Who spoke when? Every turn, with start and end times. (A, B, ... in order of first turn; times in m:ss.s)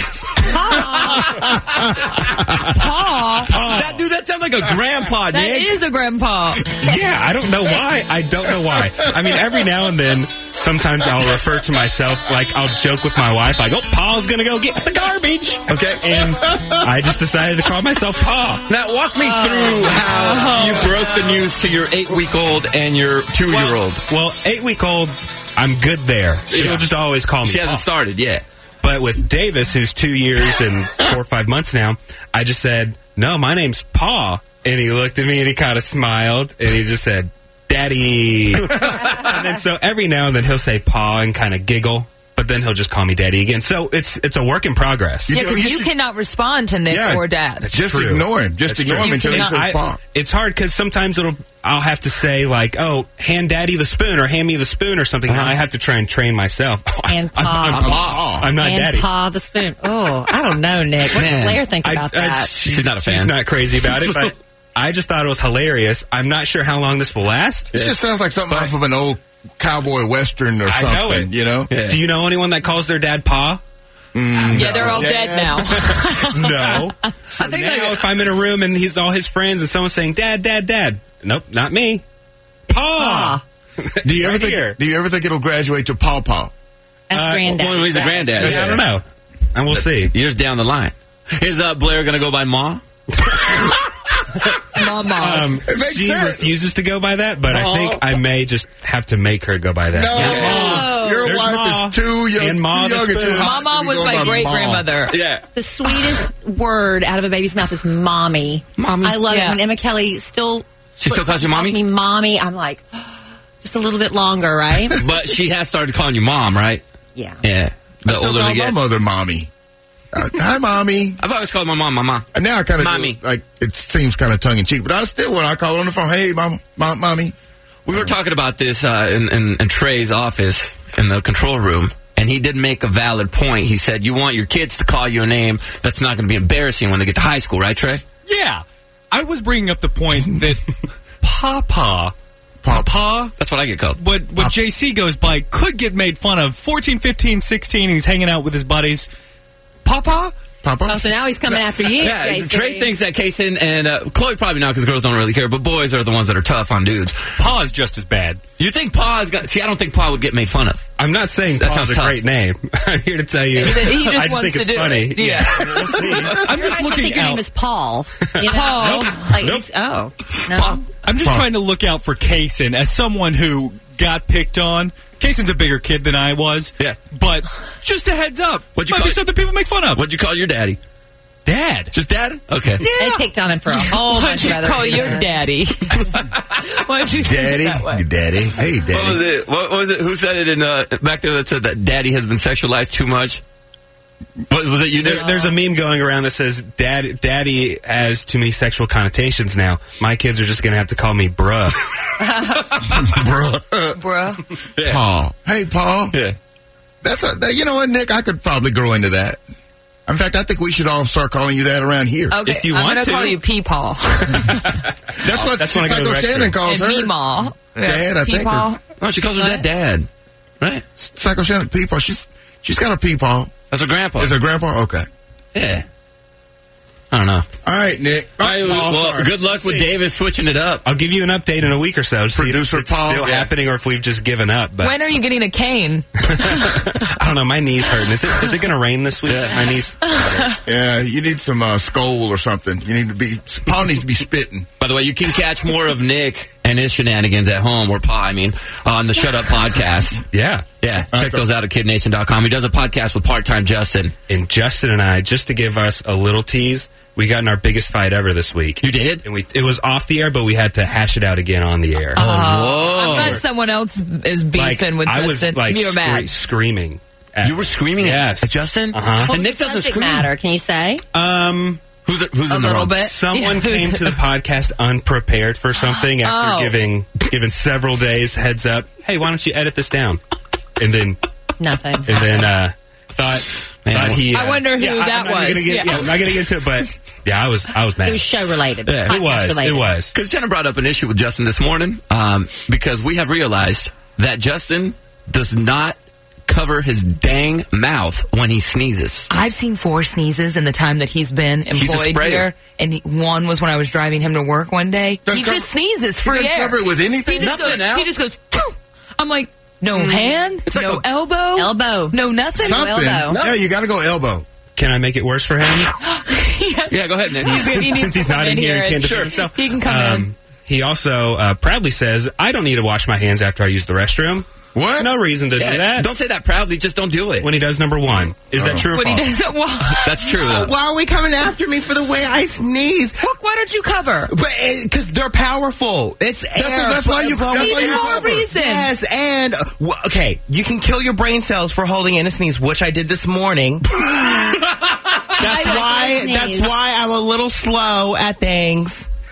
0:00.5-0:01.1 A
0:00.6-0:01.4 B
0:01.4-0:02.2 C
0:02.7-0:03.6 D
0:03.5-0:05.8 E
0:03.5-0:04.0 B
0:05.3-0:06.7 D
0:06.8-0:18.6 B
0:09.0-0:09.3 C
0:15.7-0:16.9 C
0:18.7-0:24.0 E
0:19.3-0:19.9 A
0:20.2-0:20.9 D
0:23.5-0:27.8 B
0:26.5-0:26.9 E
0:27.4-0:28.4 E
0:28.8-0:45.6 B
0:45.3-0:45.9 C
0:45.3-0:47.7 D
0:46.9-0:50.0 C
0:47.6-0:59.1 B
0:49.0-0:49.7 D
0:55.3-0:55.6 E
0:57.1-0:57.9 A
0:57.7-0:58.2 E
0:57.8-0:58.5 C
0:58.5-1:02.6 A
1:01.1-1:01.7 E
1:01.7-1:07.7 B
1:02.6-1:04.3 E
1:07.7-1:11.7 C
1:10.7-1:13.6 B
1:11.7-1:12.0 E
1:14.1-1:15.8 C
1:14.5-1:15.3 B
1:14.5-1:16.9 D
1:16.3-1:22.0 B
1:17.3-1:18.0 E
1:22.7-1:24.8 B
1:23.0-1:23.4 A
1:24.0-1:26.5 C
1:27.1-1:28.4 A
1:27.1-1:27.8 B
1:27.5-1:28.8 E
1:28.4-1:29.0 B
1:28.4-1:28.8 C
1:29.5-1:30.1 B
1:29.7-1:32.8 E
1:34.7-1:35.6 D
1:35.1-1:43.6 B
1:35.6-1:36.5 C
1:37.5-1:38.1 C
1:39.9-1:44.9 C
1:40.1-1:40.8 E
1:40.3-1:41.3 A
1:43.4-1:45.2 D
1:45.1-1:45.4 E
1:45.5-1:55.0 A
1:48.8-1:49.2 E
1:49.2-1:49.6 D
1:51.0-1:51.8 E
1:55.0-1:56.8 E
1:57.1-1:57.4 A
1:57.4-1:58.8 E
1:58.0-1:59.5 C
2:00.1-2:01.2 C
2:01.2-2:02.2 E
2:02.3-2:07.3 C
2:02.8-2:03.2 E
2:07.8-2:18.0 E
2:18.2-2:20.6 F
2:21.2-2:22.1 F
2:22.6-2:23.0 C
2:22.7-2:23.3 F
2:23.4-2:24.0 E
2:24.0-2:29.1 F
2:29.8-2:30.3 F
2:30.6-2:31.1 C
2:30.8-2:32.9 A
2:31.9-2:37.4 E
2:37.4-2:38.4 F
2:38.6-2:40.8 E
2:41.0-2:46.4 B
2:41.5-2:42.2 E
2:43.5-2:45.7 D
2:45.2-2:47.5 F
2:46.5-2:50.9 A
2:48.3-2:48.5 B
2:48.4-2:49.2 D
2:48.7-2:49.1 F
2:49.3-2:49.6 B
2:50.5-3:00.0 F
2:51.2-2:51.5 C
2:58.7-2:59.3 E
2:59.9-3:00.8 E
3:01.4-3:01.9 F
3:01.9-3:02.9 E
3:02.8-3:03.3 F
3:02.9-3:05.3 A
3:03.7-3:08.0 D
3:07.1-3:09.2 C
3:08.9-3:13.4 E
3:14.5-3:15.6 E
3:15.0-3:21.8 B
3:22.8-3:24.0 C
3:23.9-3:24.4 D
3:24.8-3:25.0 E
3:24.8-3:26.2 C
3:27.0-3:29.4 C
3:30.1-3:32.4 C
3:32.3-3:34.7 D
3:32.4-3:33.4 B
3:35.2-3:37.1 C
3:35.4-3:36.5 B
3:36.6-3:38.8 D
3:37.7-3:38.7 C
3:39.0-3:40.1 E
3:41.0-3:43.5 C
3:43.7-3:44.3 E
3:44.2-3:45.1 C
3:45.5-3:45.8 E
3:47.1-3:47.4 E
3:47.6-3:49.8 C
3:48.4-3:50.8 E
3:50.8-3:55.0 B
3:52.3-3:53.3 C
3:53.2-3:53.5 E
3:54.8-3:56.8 D
3:56.3-4:00.0 B
3:59.3-3:59.6 E
4:00.0-4:00.5 D
4:00.6-4:04.7 C
4:04.8-4:10.2 E
4:10.3-4:10.7 B
4:10.8-4:14.1 E
4:11.1-4:11.5 C
4:14.3-4:22.2 B
4:18.8-4:19.2 E
4:22.1-4:26.3 D
4:22.2-4:23.4 E
4:23.1-4:23.4 B
4:24.5-4:29.3 B
4:27.4-4:30.3 E
4:29.2-4:31.0 A
4:31.1-4:31.8 B
4:32.0-4:33.1 E
4:32.4-4:34.2 D
4:33.0-4:40.2 B
4:35.8-4:36.8 D
4:40.8-4:41.2 B
4:41.6-4:42.3 A
4:42.0-4:48.5 B
4:43.8-4:44.4 E
4:44.3-4:46.4 D
4:48.0-4:49.9 A
4:48.8-4:49.2 E
4:49.0-4:50.1 B
4:50.1-4:59.3 E
4:59.3-5:13.0 D
5:01.7-5:02.5 E
5:05.2-5:05.7 C
5:06.2-5:07.8 C
5:07.4-5:08.1 E
5:09.9-5:11.0 E
5:11.5-5:13.4 A
5:12.6-5:14.4 C
5:13.3-5:13.6 E
5:14.8-5:15.9 B
5:16.0-5:20.3 D
5:16.9-5:17.9 E
5:17.5-5:26.1 B
5:19.0-5:19.4 E
5:24.7-5:25.1 C
5:25.6-5:27.5 E
5:27.4-5:29.3 B
5:28.5-5:28.9 C
5:28.9-5:30.4 D
5:30.0-5:30.7 E
5:30.4-5:33.2 G
5:33.2-5:34.3 D
5:34.3-5:44.6 G
5:36.5-5:38.5 C
5:37.4-5:38.9 D
5:45.4-5:49.1 G
5:45.4-5:46.3 D
5:45.5-5:46.7 A